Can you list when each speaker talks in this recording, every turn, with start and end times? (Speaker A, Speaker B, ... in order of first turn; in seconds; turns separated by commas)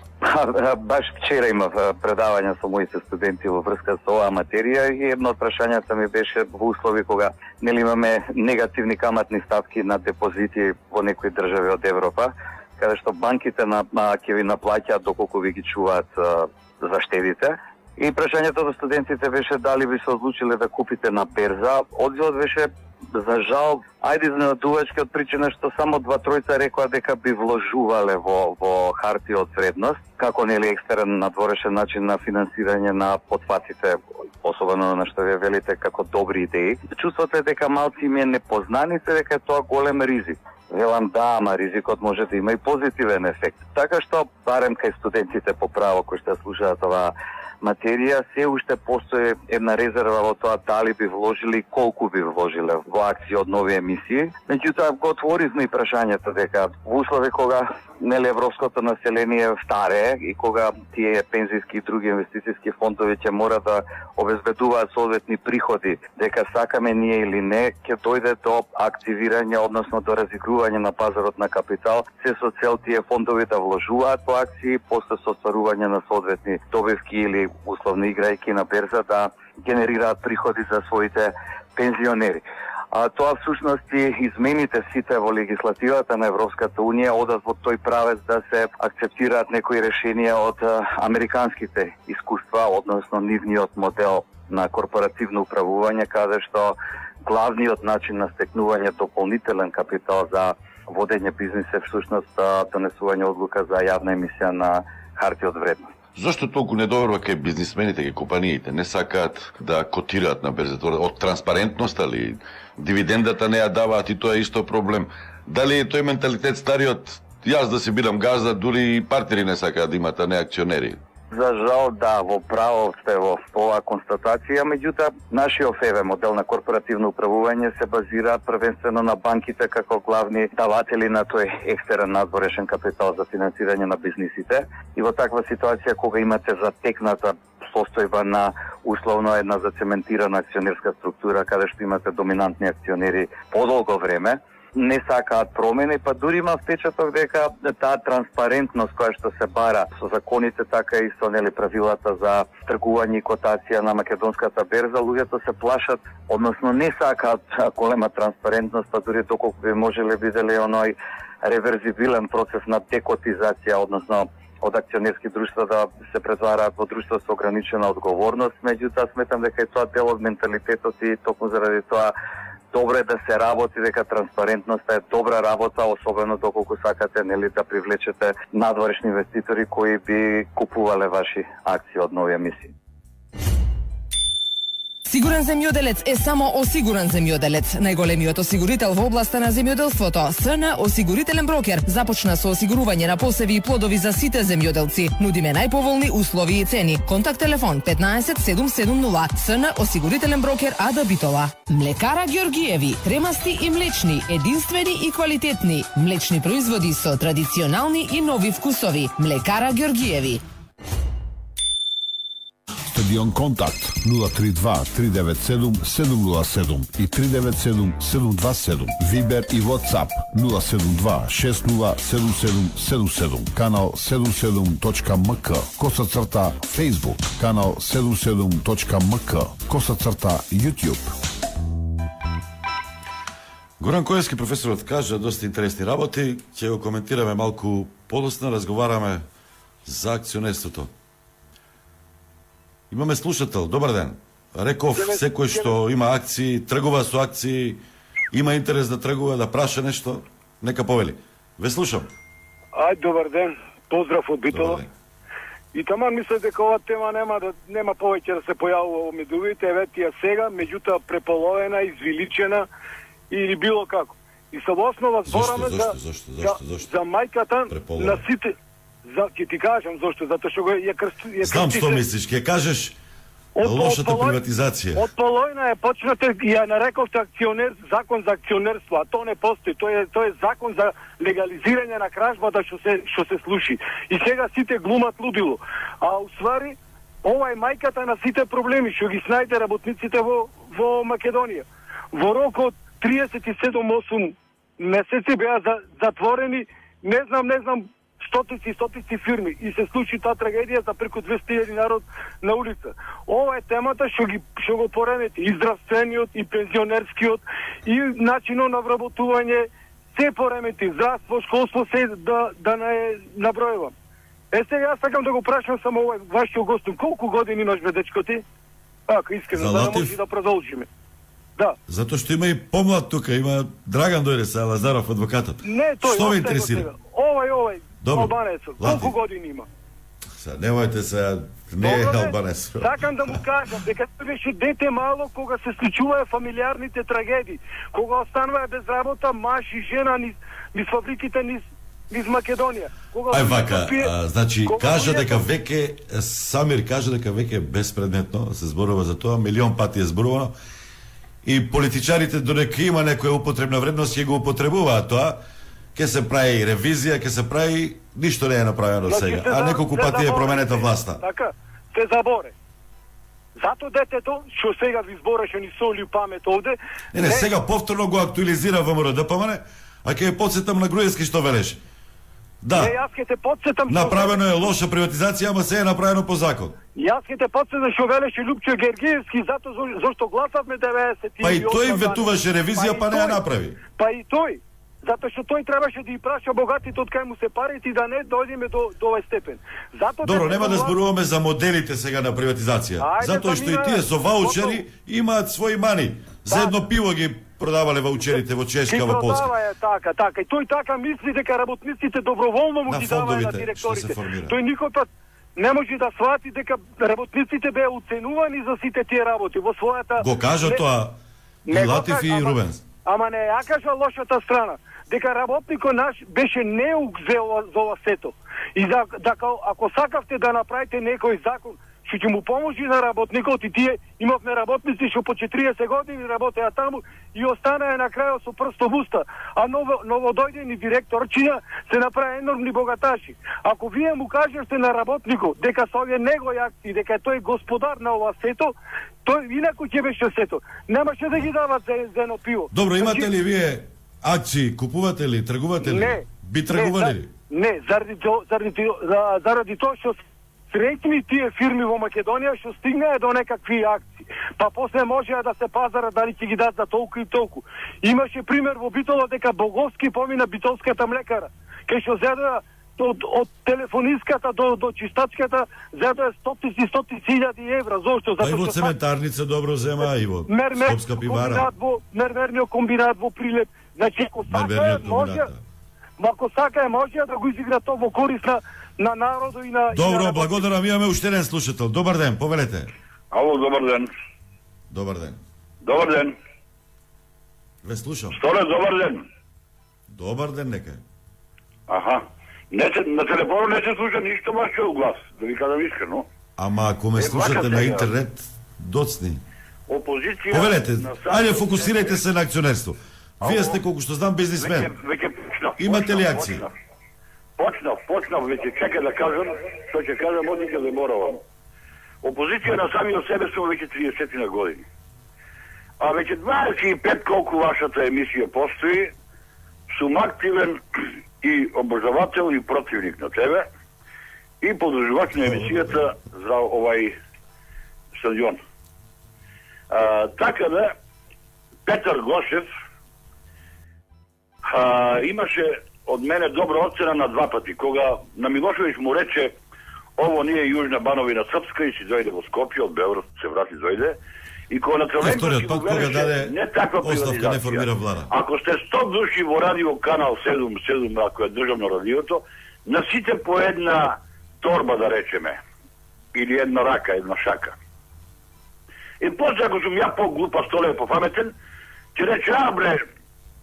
Speaker A: 0.2-105.9, Speaker B: 106.1-121.0, Speaker A: 121.3-172.1, Speaker A: 172.7-182.7, Speaker C: 185.1-210.4, Speaker D: 212.9-231.1, Speaker B: 233.8-239.2, Speaker B: 239.8-240.9, Speaker B: 242.9-252.1, Speaker E: 244.9-245.8, Speaker E: 252.7-254.8, Speaker B: 254.5-254.9, Speaker E: 255.7-262.7, Speaker E: 263.3-268.5, Speaker B: 265.2-266.9, Speaker B: 267.7-268.2, Speaker E: 269.1-272.0, Speaker B: 271.4-272.9, Speaker E: 273.6-274.4, Speaker B: 273.6-275.1, Speaker E: 274.9-313.9, Speaker E: 314.5-318.4, Speaker E: 319.1-320.9, Speaker B: 319.5-320.1, Speaker B: 321.9-326.9, Speaker E: 325.6-329.7, Speaker B: 328.0-329.1, Speaker B: 330.4-333.3, Speaker E: 331.8-344.1, Speaker B: 343.3-350.5, Speaker E: 344.6-345.4, Speaker B: 351.4-355.4, Speaker B: 355.9-361.2, Speaker E: 359.1-362.5, Speaker E: 363.6-367.5, Speaker B: 367.1-371.8, Speaker B: 372.6-372.9, Speaker E: 372.7-374.6, Speaker B: 373.9-376.8, Speaker E: 376.9-383.4, Speaker B: 381.4-383.8, Speaker E: 384.0-390.9, Speaker B: 390.2-399.5, Speaker E: 393.0-394.8, Speaker E: 396.5-396.8, Speaker E: 398.9-410.8, Speaker B: 402.9-404.6, Speaker B: 410.2-411.1, Speaker E: 411.6-438.7, Speaker B: 411.7-412.8, Speaker E: 439.2-443.3, Speaker B: 442.7-447.3, Speaker E: 445.8-450.2, Speaker E: 450.7-468.9, Speaker B: 468.4-471.7, Speaker E: 470.5-475.5, Speaker B: 474.5-475.6, Speaker E: 476.2-480.7, Speaker B: 479.9-482.9, Speaker F: 483.3-484.1, Speaker B: 484.9-485.4, Speaker F: 485.8-486.3, Speaker B: 487.8-488.4, Speaker F: 488.3-489.2, Speaker B: 490.1-491.0, Speaker F: 491.9-496.3, Speaker B: 496.6-499.4, Speaker F: 497.1-498.1, Speaker F: 499.9-502.2, Speaker B: 500.5-504.9, Speaker F: 503.4-503.8, Speaker F: 504.6-506.7, Speaker B: 505.8-506.6, Speaker F: 507.6-511.4, Speaker F: 512.2-514.8, Speaker F: 516.0-519.1, Speaker F: 519.9-520.8, Speaker F: 521.4-523.7, Speaker F: 524.6-527.1, Speaker F: 528.1-528.6, Speaker F: 529.9-530.9, Speaker F: 531.9-532.7, Speaker F: 534.6-539.5, Speaker F: 540.2-544.2, Speaker F: 544.7-555.6, Speaker B: 545.2-548.3, Speaker F: 556.3-557.8, Speaker F: 559.2-561.5, Speaker F: 562.1-563.0